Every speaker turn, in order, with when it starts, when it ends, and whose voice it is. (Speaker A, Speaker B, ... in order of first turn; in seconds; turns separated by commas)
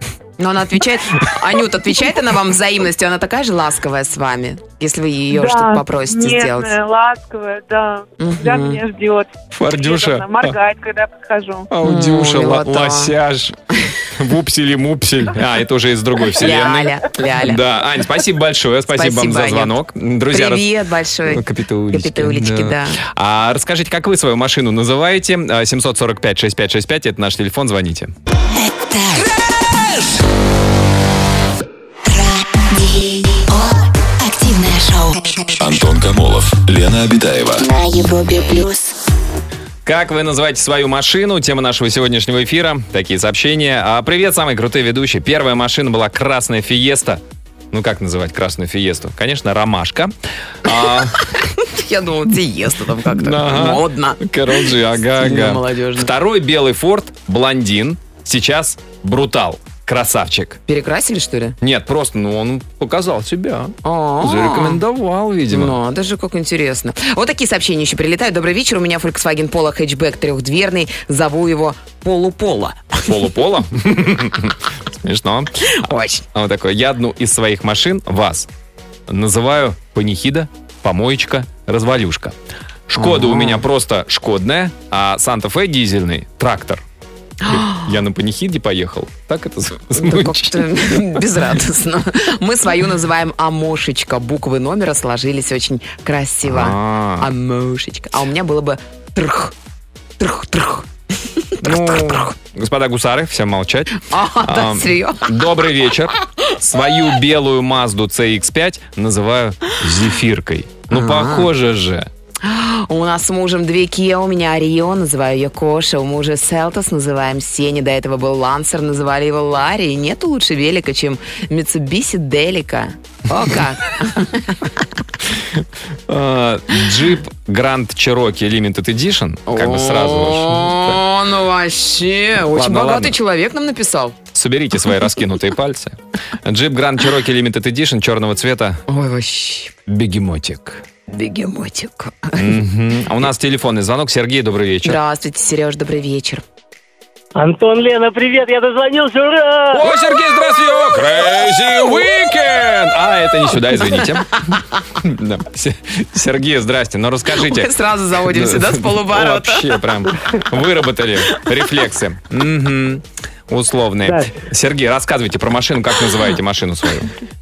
Speaker A: 0.4-6.7, Speaker B: 5.3-11.7, Speaker A: 8.2-8.8, Speaker C: 9.5-10.6, Speaker C: 11.7-20.7, Speaker A: 11.8-13.1, Speaker A: 16.3-17.6, Speaker A: 18.9-19.7, Speaker A: 20.3-23.0, Speaker C: 21.2-28.1, Speaker D: 28.7-29.2, Speaker D: 32.0-35.5, Speaker E: 35.6-37.6, Speaker D: 37.6-38.9, Speaker C: 39.8-51.2, Speaker A: 51.1-56.1, Speaker C: 53.1-60.6, Speaker A: 60.7-61.6, Speaker C: 61.6-65.8, Speaker A: 63.8-64.8, Speaker A: 65.5-73.2, Speaker C: 73.0-75.5, Speaker A: 75.6-76.2, Speaker C: 76.3-78.5, Speaker C: 79.1-82.3, Speaker C: 82.9-86.8, Speaker A: 83.0-83.6, Speaker A: 87.4-87.9, Speaker C: 87.5-91.2, Speaker A: 89.9-99.5, Speaker C: 96.4-97.3, Speaker A: 100.2-102.3, Speaker C: 101.6-112.1, Speaker A: 104.0-105.5, Speaker A: 110.9-111.5, Speaker A: 112.4-124.7, Speaker C: 125.3-131.0, Speaker A: 129.5-134.2, Speaker C: 132.5-133.2, Speaker C: 134.3-138.8, Speaker A: 138.9-139.7, Speaker C: 139.9-140.8, Speaker A: 141.1-142.6, Speaker C: 142.3-145.0, Speaker A: 144.8-146.4, Speaker F: 147.3-149.9, Speaker C: 149.7-167.1, Speaker A: 157.3-159.8, Speaker F: 164.0-164.3